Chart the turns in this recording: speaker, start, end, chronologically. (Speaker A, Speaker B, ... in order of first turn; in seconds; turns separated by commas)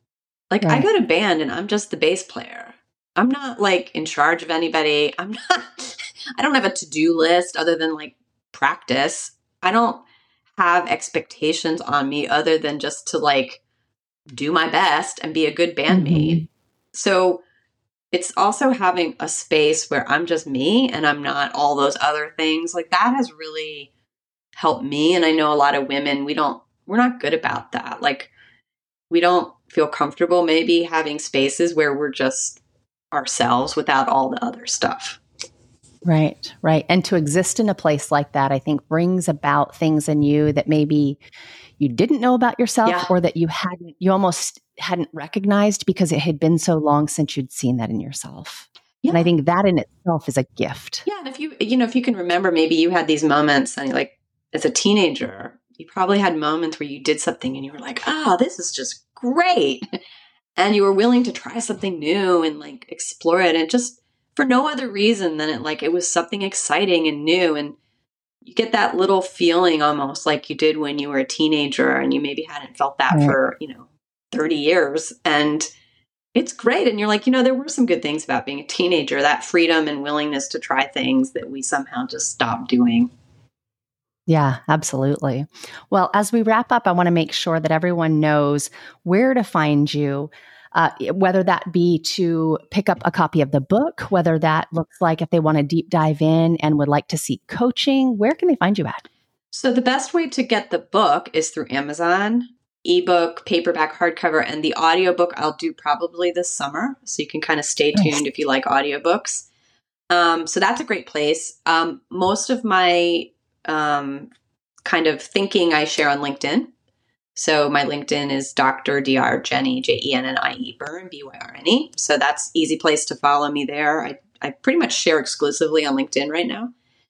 Speaker A: 0.5-10.0, Speaker A: 10.6-13.6, Speaker A: 14.3-17.4, Speaker B: 15.9-16.4, Speaker A: 18.1-23.9, Speaker A: 24.6-28.3, Speaker A: 29.1-32.6, Speaker A: 33.1-35.2, Speaker B: 36.0-41.2, Speaker B: 41.8-51.0, Speaker A: 42.8-43.1, Speaker A: 49.0-49.3, Speaker A: 51.0-59.8, Speaker A: 60.6-67.8, Speaker A: 68.4-75.7, Speaker B: 73.1-73.3, Speaker A: 76.3-83.1, Speaker B: 84.3-99.0, Speaker A: 99.5-109.5, Speaker B: 107.9-108.2, Speaker A: 110.1-114.3, Speaker A: 114.8-116.7, Speaker A: 117.3-126.7